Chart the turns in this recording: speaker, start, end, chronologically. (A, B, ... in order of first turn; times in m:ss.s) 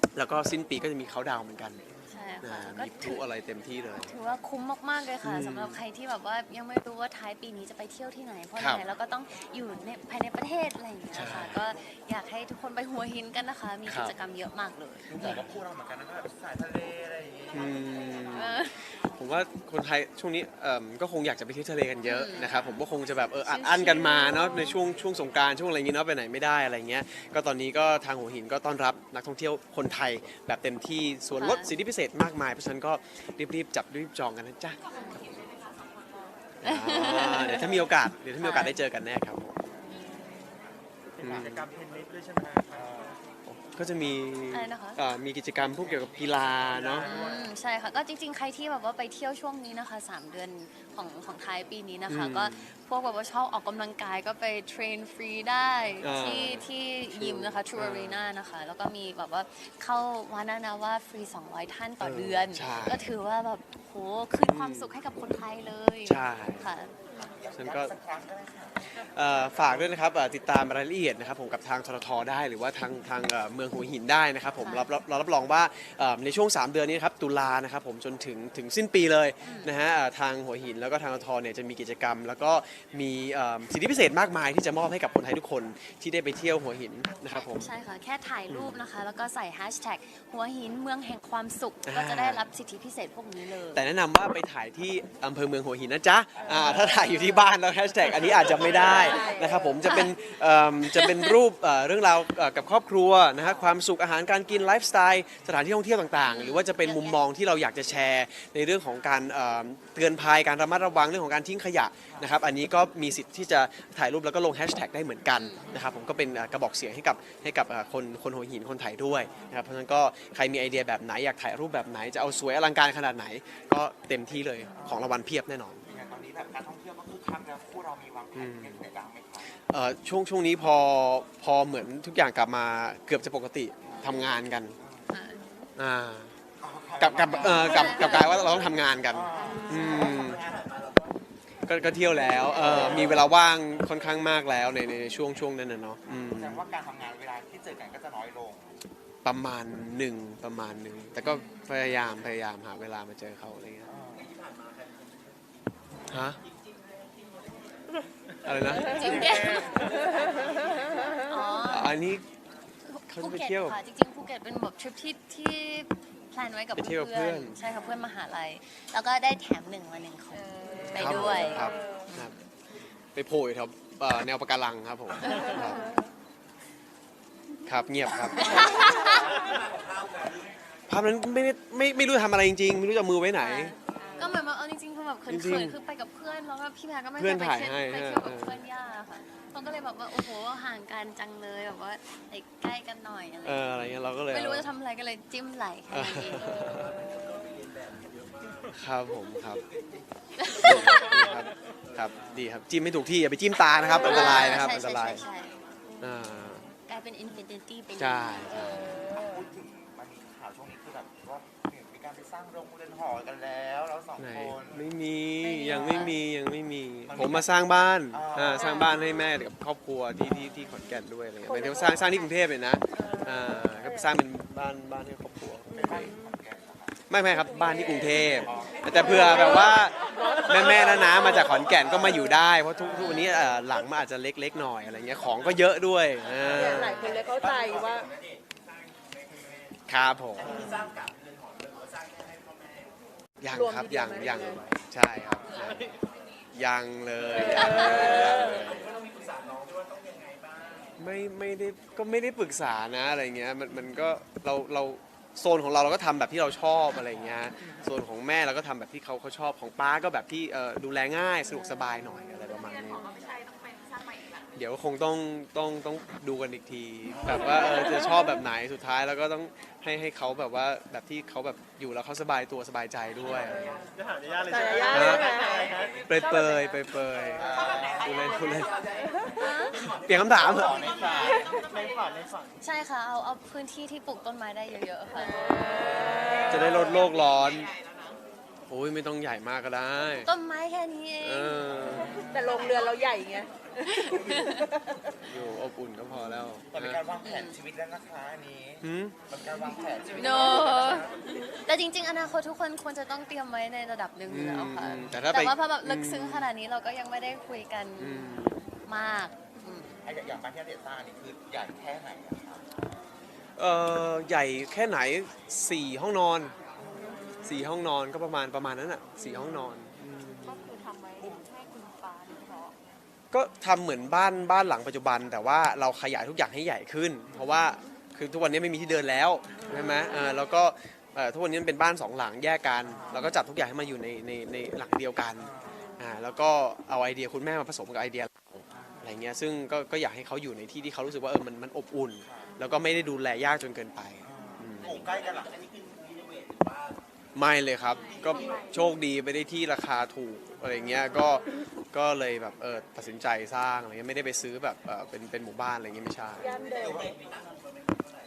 0:00.1-0:01.8 A
0:02.1-0:03.3 B
0:02.4-0:04.1 A
0:04.0-0:15.4 B
0:05.2-0:05.8 A
0:08.6-0:08.8 A
0:11.1-0:11.6 A
0:13.9-0:14.1 A
0:15.1-0:18.2 C
0:15.2-0:15.5 A
0:17.5-0:35.4 A
0:18.3-0:18.8 B
0:22.0-0:22.6 B
0:23.4-0:24.8 B
0:31.3-0:31.7 B
0:36.6-0:39.6 A
0:36.6-0:37.8 B
0:38.4-0:38.8 B
0:41.2-0:41.8 C
0:41.2-0:41.7 A
0:42.7-0:43.2 C
0:43.5-0:47.1 A
0:44.5-0:45.0 B
0:47.0-1:06.9 B
0:47.0-0:47.3 C
0:52.1-0:52.7 A
0:56.0-0:58.3 A
1:02.0-1:03.1 A
1:04.4-1:04.9 A
1:06.0-1:06.7 A
1:07.1-1:09.0 C
1:07.5-1:07.9 A
1:08.9-1:27.7 A
1:14.6-1:14.9 B
1:19.4-1:19.7 B
1:27.2-1:33.8 B
1:28.5-1:28.8 A
1:31.8-1:32.5 A
1:33.7-2:05.8 A
1:36.4-1:37.2 C
1:36.4-1:37.2 D
1:38.4-1:39.8 D
1:38.4-1:39.1 C
1:39.9-1:40.1 B
1:40.9-1:41.3 B
1:43.4-1:43.8 C
1:46.2-1:47.2 B
1:52.1-1:52.3 C
1:55.3-1:55.8 B
1:59.2-1:59.6 C
2:04.7-2:05.1 C
2:05.8-2:09.5 C
2:08.3-2:08.8 A
2:09.7-2:14.8 A
2:13.8-2:14.2 C
2:14.8-2:15.1 C
2:15.1-2:15.7 B
2:15.8-2:16.3 A
2:16.6-2:18.5 C
2:17.0-2:20.4 A
2:17.3-2:18.7 B
2:19.1-2:20.7 C
2:19.4-2:20.2 B
2:20.0-2:21.0 E
2:21.7-2:26.6 A
2:22.6-2:23.2 C
2:26.2-2:28.8 C
2:29.2-2:33.9 A
2:31.3-2:31.8 B
2:33.9-2:34.3 C
2:34.2-2:34.9 E
2:36.1-2:36.4 A
2:38.4-2:39.5 A
2:38.8-2:40.1 B
2:39.8-2:40.2 D
2:40.7-2:41.1 D
2:41.2-2:42.0 B
2:41.6-2:42.2 A
2:42.8-2:52.3 B
2:43.1-2:43.8 A
2:46.8-2:47.6 A
2:50.4-2:52.1 D
2:50.9-2:52.3 A
2:53.1-2:55.9 A
2:55.3-2:55.6 B
2:57.6-2:58.7 A
2:58.4-2:59.4 B
3:00.9-3:03.7 A
3:03.3-3:16.5 B
3:04.0-3:04.2 D
3:05.3-3:05.8 A
3:07.2-3:08.6 A
3:13.4-3:14.7 A
3:15.9-3:17.0 A
3:16.8-3:18.6 E
3:18.7-3:19.6 A
3:20.4-3:21.2 B
3:20.6-3:25.2 A
3:23.9-3:25.6 B
3:26.0-3:26.7 A
3:26.9-3:29.0 B
3:27.9-3:28.9 A
3:28.8-3:29.4 D
3:29.0-3:34.8 C
3:34.2-3:46.1 A
3:35.6-3:36.0 D
3:35.7-3:36.1 B
3:37.0-3:37.6 C
3:38.1-3:38.9 C
3:38.6-3:38.9 B
3:41.5-3:42.1 D
3:43.0-3:43.8 D
3:45.7-3:47.1 C
3:45.7-3:46.0 D
3:47.1-3:57.1 A
3:47.4-3:48.2 D
3:47.9-3:49.9 C
3:49.0-3:52.1 D
3:53.0-3:53.4 B
3:56.4-3:58.0 C
3:56.4-3:58.1 D
3:57.6-3:59.7 E
3:59.9-4:00.6 A
4:00.4-4:02.8 E
4:03.4-4:05.9 A
4:03.4-4:04.6 D
4:05.5-4:05.8 E
4:06.5-4:08.9 A
4:07.4-4:10.9 E
4:07.6-4:08.6 D
4:11.0-4:23.1 A
4:24.5-4:33.8 A
4:34.1-4:36.0 E
4:34.5-4:36.5 D
4:34.9-4:35.4 A
4:36.0-4:38.7 A
4:37.4-4:38.8 E
4:37.4-4:38.3 C
4:39.4-4:39.8 B
4:39.8-4:40.8 A
4:39.8-4:42.3 E
4:40.2-4:41.4 C
4:41.4-4:41.6 D
4:42.6-4:45.5 B
4:45.2-4:46.8 D
4:45.8-4:46.8 C
4:46.5-4:47.7 A
4:48.7-4:50.3 A
4:50.2-4:52.0 B
4:51.2-4:52.2 A
4:51.7-4:52.9 C
4:52.2-4:55.2 D
4:53.8-4:54.7 B
4:55.2-4:57.0 A
4:56.7-5:01.3 C
4:57.2-4:57.6 B
4:58.8-4:59.2 A
5:00.2-5:01.1 B
5:01.6-5:09.9 B
5:04.2-5:06.5 A
5:08.0-5:08.6 A
5:10.0-5:12.7 C
5:13.6-5:16.5 A
5:16.8-5:17.1 C
5:17.1-5:17.4 D
5:17.4-5:20.7 A
5:20.4-5:22.7 D
5:23.3-5:45.0 A
5:29.6-5:30.3 D
5:32.8-5:33.2 C
5:35.4-5:35.8 C
5:38.8-5:39.0 C
5:42.2-5:42.6 C
5:44.2-5:45.6 C
5:45.5-5:46.9 E
5:47.3-5:56.5 A
5:48.5-5:48.9 D
5:56.4-5:57.0 D
5:56.8-5:57.2 C
5:57.0-5:58.0 E